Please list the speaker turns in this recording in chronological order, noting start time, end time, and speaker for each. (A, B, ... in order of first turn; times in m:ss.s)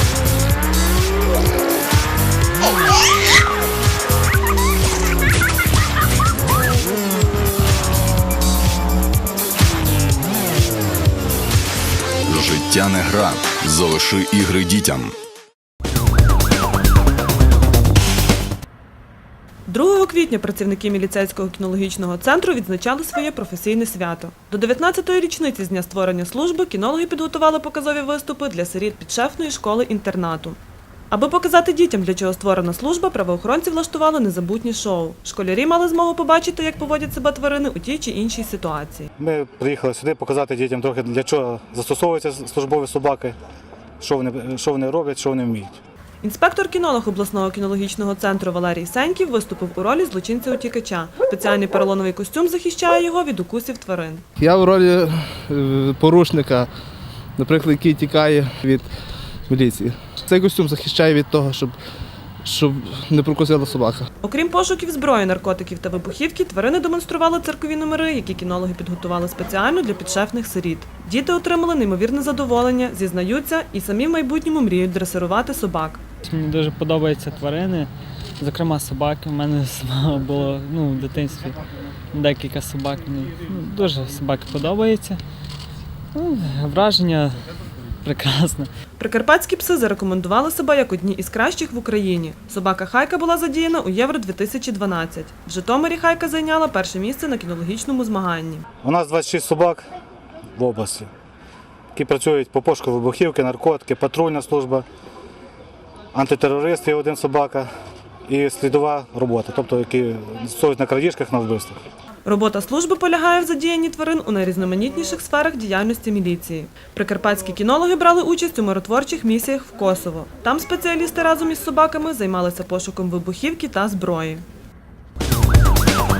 0:12.3-0:15.1 A
0:19.7-0:30.6 B
0:31.1-0:39.1 B
0:39.2-0:43.3 C
0:44.0-0:45.8 C
0:46.2-0:54.2 B
0:54.4-0:56.7 D
0:57.4-0:58.9 D
0:59.5-1:01.7 D
1:02.4-1:04.0 D
1:04.2-1:16.0 B
1:16.2-1:17.9 E
1:18.4-1:21.6 E
1:22.1-1:25.2 E
1:26.1-1:27.3 E
1:28.0-1:28.7 E
1:29.0-1:38.6 B
1:38.8-1:39.8 C
1:40.6-1:41.1 C
1:41.9-1:44.8 C
1:46.1-1:47.7 C
1:48.3-1:51.8 C
1:52.2-2:04.4 B